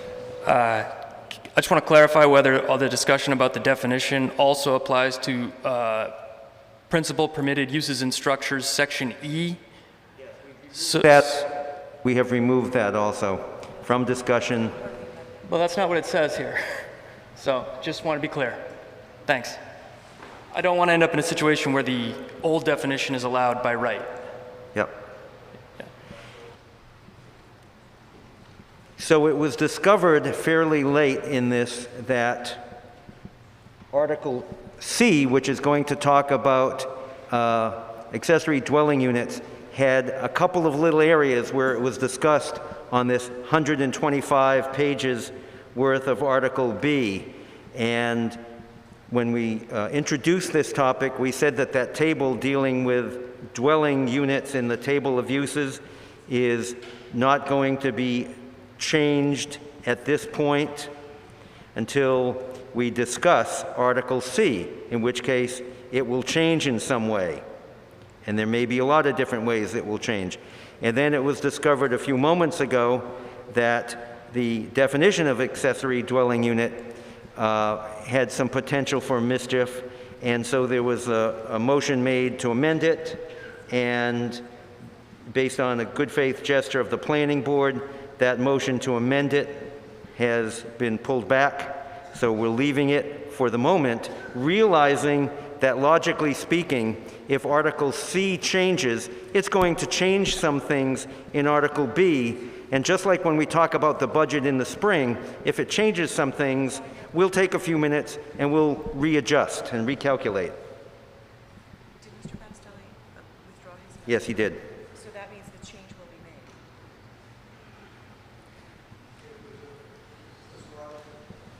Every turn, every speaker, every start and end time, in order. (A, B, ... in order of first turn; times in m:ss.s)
0:00.4-0:00.9 A
0:01.5-0:06.1 A
0:06.9-0:09.6 A
0:10.7-0:11.2 A
0:10.9-0:11.5 B
0:12.0-0:14.8 B
0:15.4-0:16.8 A
0:17.4-0:18.6 A
0:19.2-0:19.6 A
0:20.5-0:24.1 A
0:29.0-0:32.7 B
0:33.9-0:48.4 B
0:49.1-1:00.9 B
1:01.7-1:07.4 B
1:08.2-1:24.4 B
1:25.3-1:50.6 B
1:52.0-1:54.2 C
1:54.1-1:54.6 B
1:54.8-1:56.6 C